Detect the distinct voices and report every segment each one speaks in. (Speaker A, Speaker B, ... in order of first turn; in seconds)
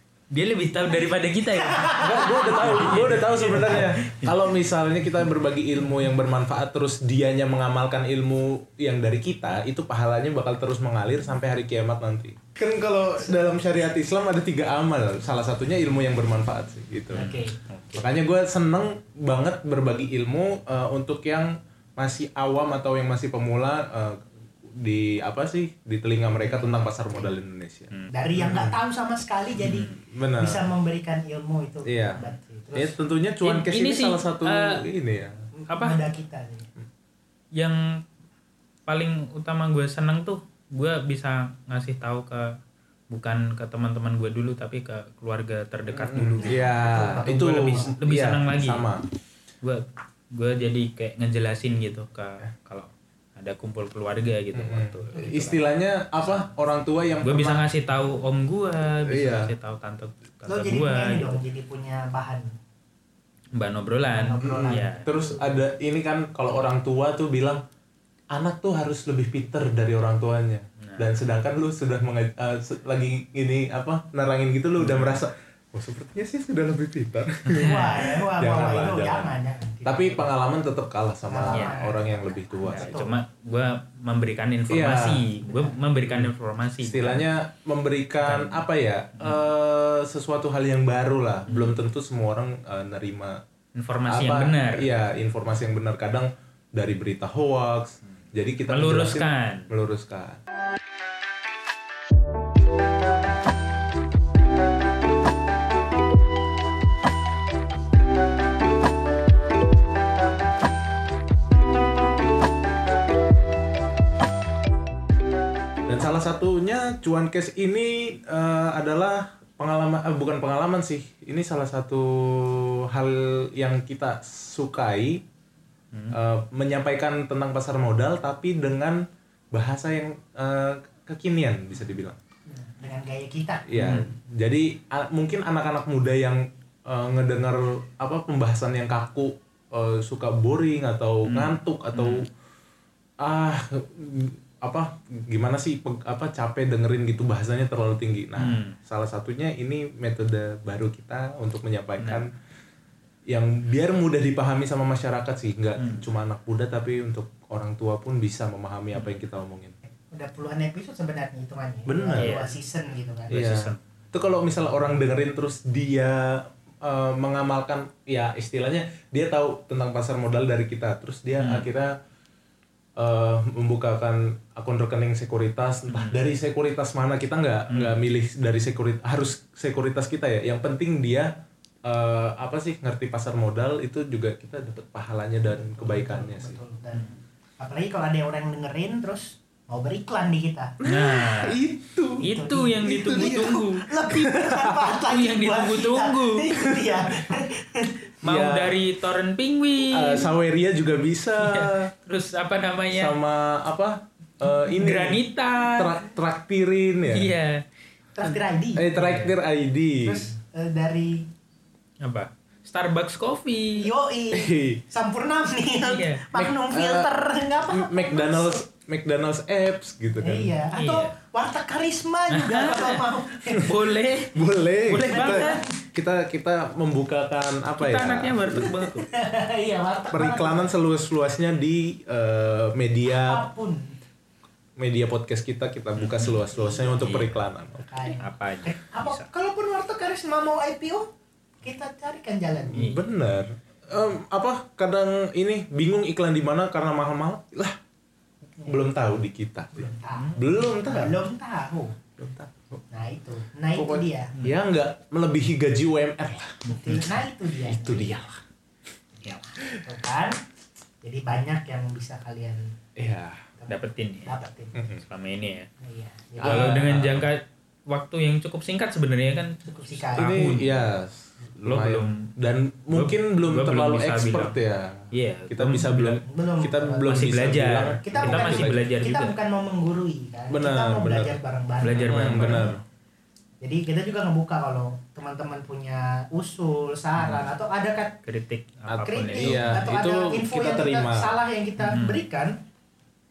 Speaker A: 0.3-4.3, 17.1-18.1, 29.6-30.0, 33.4-34.9, 35.7-36.0, 37.5-38.0, 38.9-42.5, 43.1-48.9, 49.6-55.6, 57.2-61.4, 63.6-65.1, 70.8-71.2, 74.8-75.2, 77.5-78.0, 81.5-81.8, 82.6-87.3, 88.2-88.7, 89.2-89.5, 91.5-91.8, 93.8-94.9, 98.7-99.7, 133.8-134.1, 141.2-142.2, 148.4-148.8, 152.0-152.2, 155.8-156.1, 158.9-159.2, 162.2-162.5, 163.3-163.8, 171.4-171.7, 175.9-176.2, 177.7-178.0, 190.9-191.6, 192.2-193.9, 195.0-196.6, 198.2-200.3, 201.4-203.2, 204.7-206.0, 207.1-207.7, 208.9-209.3, 212.0-213.9, 215.8-216.2, 220.8-221.1, 222.3-225.7, 227.8-229.1, 236.0-236.5, 237.0-237.5, 238.2-239.3, 242.8-243.1, 250.1-250.7, 263.7-264.4, 265.0-265.7, 266.4-270.8, 271.7-272.3, 272.9-274.6, 275.1-276.2, 277.1-279.3, 281.8-282.8, 287.2-287.5, 288.2-290.0, 291.8-292.2
Speaker B: 1.6-2.5, 17.1-17.6, 26.4-27.3, 28.1-33.0, 35.7-36.7, 46.4-48.0, 60.5-62.5, 64.1-64.9, 77.6-80.3, 81.3-83.2, 85.4-85.8, 132.5-133.7, 160.1-163.4, 185.5-190.8, 192.2-198.0, 208.2-209.0, 210.0-211.3, 213.8-218.6, 220.2-223.8, 225.1-225.7, 229.1-230.7, 233.1-233.9, 236.5-241.1, 241.6-242.9, 249.8-252.0, 252.9-254.4, 256.6-258.4, 259.2-260.4, 261.0-262.6, 263.6-264.8, 265.8-266.7, 269.6-270.5, 276.2-282.7, 283.6-288.2, 289.0-292.6
Speaker C: 1.9-17.4, 18.0-24.2, 24.8-28.8, 30.1-30.7, 31.9-35.4, 45.9-49.0, 54.5-57.7, 59.0-59.5, 64.4-67.6, 68.3-83.0, 84.7-85.3, 86.8-93.4, 94.1-100.4, 115.9-125.2, 126.1-129.0, 129.5-132.2, 133.7-142.3, 143.2-152.3, 153.3-159.8, 161.9-162.3, 163.3-171.9, 173.0-181.3, 181.9-186.6, 190.8-192.3, 192.8-194.9, 196.6-196.9, 198.2-198.8, 199.8-201.9, 202.9-207.3, 208.8-210.3, 214.3-214.8, 216.3-217.1, 217.7-220.5, 224.3-228.8, 230.1-233.5, 234.8-237.9, 242.7-247.8, 248.7-251.2, 252.2-252.8, 253.8-257.0, 257.6-258.4, 263.0-263.5, 264.8-265.0, 266.4-267.3, 270.2-278.9, 280.5-281.4, 281.9-282.8, 288.9-291.4